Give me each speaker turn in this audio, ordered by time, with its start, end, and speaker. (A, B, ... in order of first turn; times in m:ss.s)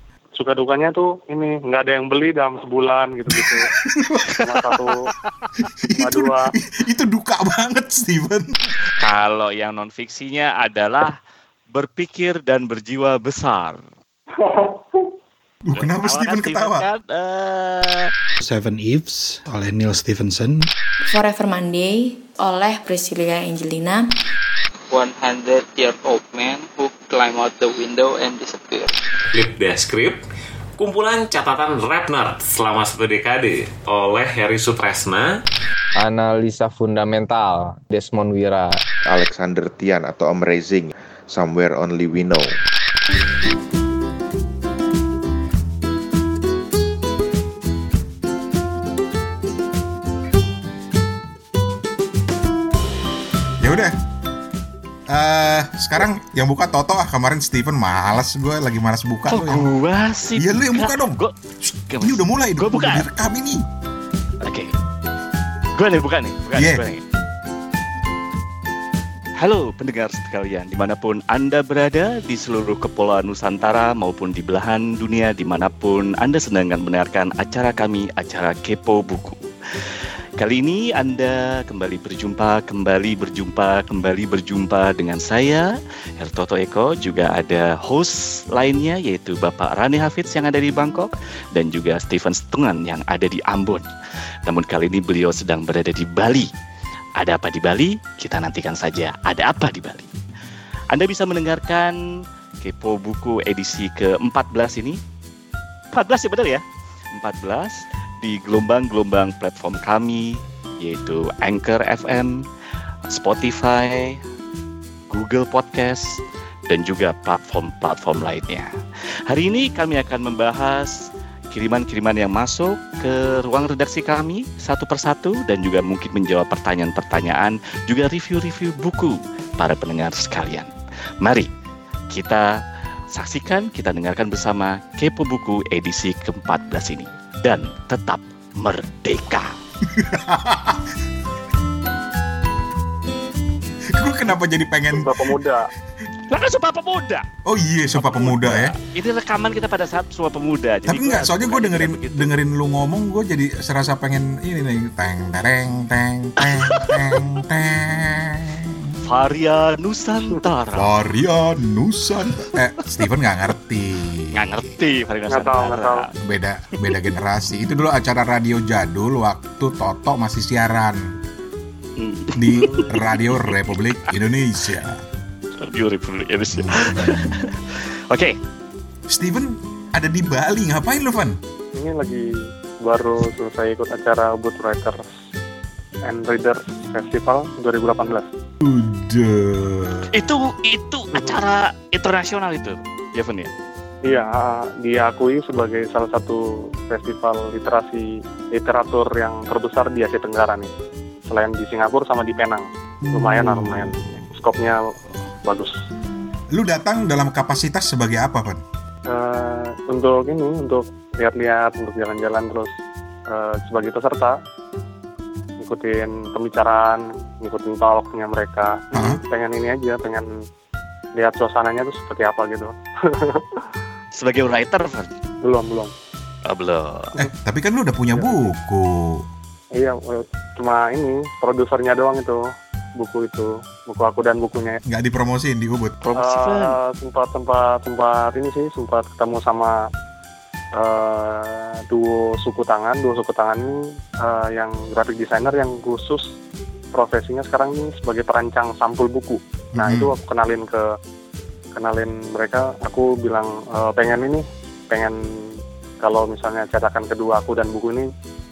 0:00.4-0:03.7 A
0:03.3-0:04.4 B
0:04.4-0:05.1 A
0:05.6-0:08.7 B
0:06.0-0:06.5 A
0:09.0-0:11.1 C
0:11.7-0:13.8 C
0:14.4-0:15.1 A
0:15.6-0:16.8 B
0:15.7-0:18.1 C
0:18.4-0:20.7 D
0:21.1-0:24.1 E
0:24.9-0:28.9 F
0:29.3-0:30.2 G
0:30.8-0:35.3 G
0:36.0-0:38.8 H
0:39.1-0:42.5 I
0:53.6-0:53.9 B
0:55.1-0:59.6 B
0:59.3-1:03.0 C
1:00.4-1:01.2 B
1:02.0-1:03.6 B
1:04.4-1:04.7 C
1:05.7-1:07.0 C
1:06.6-1:06.8 B
1:09.4-1:19.4 C
1:20.4-1:33.8 C
1:34.4-1:36.5 C
1:37.2-1:40.1 C
1:40.9-1:42.0 C
1:42.6-1:45.0 C
1:45.9-1:46.6 C
1:47.1-1:52.4 C
1:53.1-1:54.2 C
1:55.1-1:56.0 C
1:56.7-1:58.7 C
1:59.3-2:01.0 C
2:01.5-2:11.5 C
2:12.1-2:12.6 C
2:13.1-2:19.6 C
2:19.8-2:20.8 B
2:23.9-2:25.4 B
2:24.9-2:25.6 A
2:26.3-2:27.2 C
2:27.4-2:28.7 B
2:28.0-2:32.3 C
2:30.9-2:39.0 B
2:36.4-2:37.2 C
2:39.0-2:41.0 C
2:40.8-2:44.6 B
2:44.3-2:46.1 C
2:45.3-2:46.1 A
2:46.2-2:51.1 B
2:52.0-2:53.8 C
2:52.4-2:55.0 B
2:55.6-2:58.4 C
2:56.6-2:57.2 B
2:59.1-3:01.4 B
3:01.8-3:02.2 A
3:02.8-3:05.0 A
3:06.0-3:08.3 A
3:08.6-3:10.1 B
3:10.1-3:13.5 C
3:14.0-3:20.7 A
3:21.3-3:24.8 A
3:23.1-3:24.0 B
3:25.4-3:25.7 A
3:26.5-3:28.6 B
3:29.1-3:32.7 A
3:33.3-3:34.4 A
3:35.6-3:40.3 A
3:38.9-3:39.2 B
3:41.2-3:43.6 A
3:44.2-3:45.1 C
3:45.4-3:45.9 A
3:46.5-3:47.1 C
3:47.2-3:49.2 B
3:49.8-3:52.4 A
3:53.0-3:54.8 A
3:54.9-3:55.9 B
3:56.0-3:56.8 C
3:56.2-3:59.8 A
4:00.8-4:06.3 A
4:06.9-4:10.8 A
4:09.8-4:10.1 B
4:11.7-4:15.2 A
4:16.0-4:18.1 A